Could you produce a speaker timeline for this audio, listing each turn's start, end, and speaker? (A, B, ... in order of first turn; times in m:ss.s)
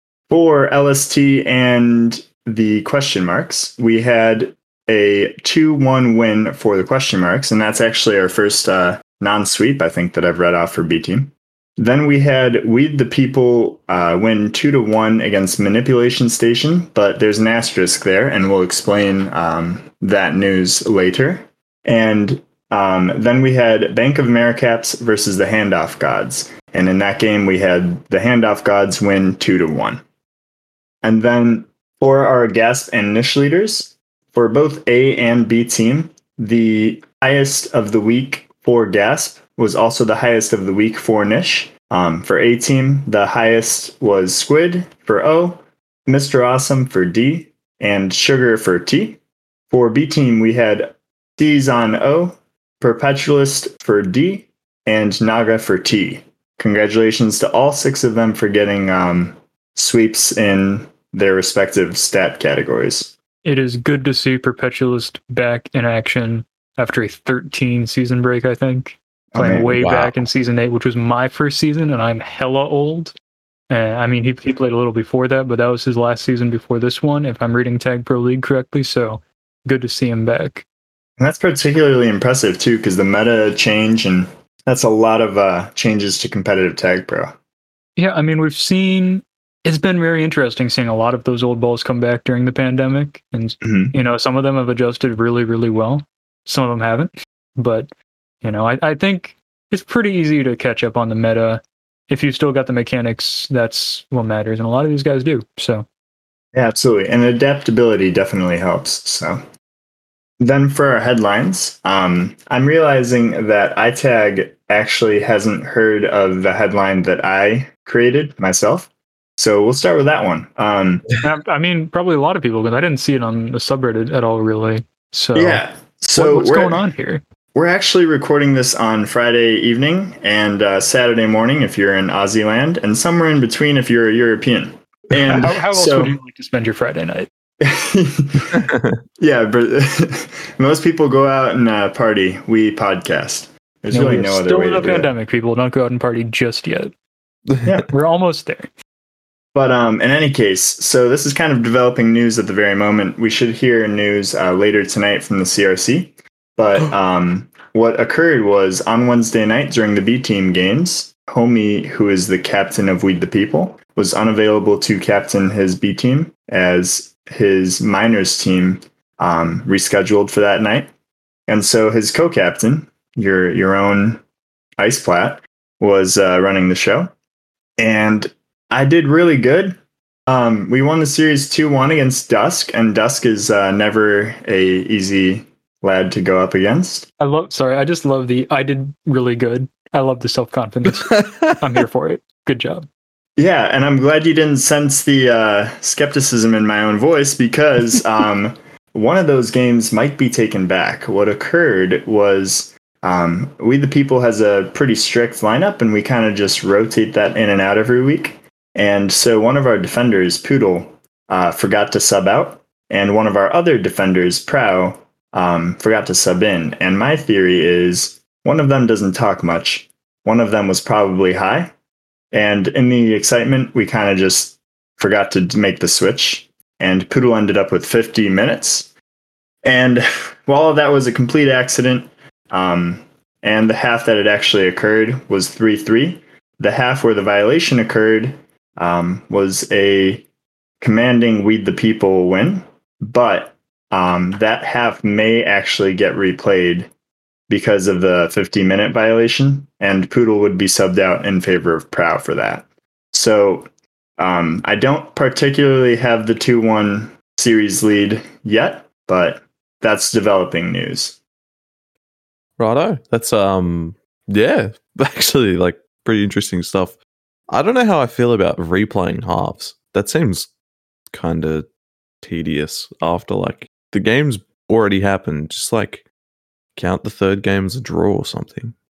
0:00.3-0:30.0 A
0:31.0-0:49.2 A
0:49.7-1:03.1 A
1:03.4-1:13.1 B
1:09.3-1:09.7 A
1:09.7-1:10.2 C
1:13.7-1:20.6 B
1:21.2-1:27.3 A
1:28.0-1:37.9 B
1:33.6-1:33.9 A
1:38.4-1:45.9 B
1:46.5-1:49.4 A
1:50.4-2:01.1 A
2:01.2-2:05.6 B
2:05.3-2:06.9 A
2:06.2-2:07.2 B
2:07.6-2:16.1 A
2:15.4-2:17.3 B
2:17.6-2:25.1 A
2:18.5-2:19.0 C
2:23.9-2:26.9 B
2:27.5-2:27.9 C
2:27.9-2:28.7 B
2:29.5-2:50.9 A
2:51.5-2:54.2 A
2:54.8-2:57.1 A
2:57.8-2:59.8 A
3:00.3-3:07.1 A
3:07.2-3:12.9 B
3:10.9-3:11.8 C
3:13.4-3:41.7 A
3:42.3-3:48.9 A
3:49.6-4:00.3 A
4:00.8-4:06.9 A
4:07.5-4:21.2 A
4:22.6-4:27.0 C
4:27.5-4:30.5 C
4:31.1-4:31.7 C
4:32.2-4:36.1 C
4:36.7-4:38.7 C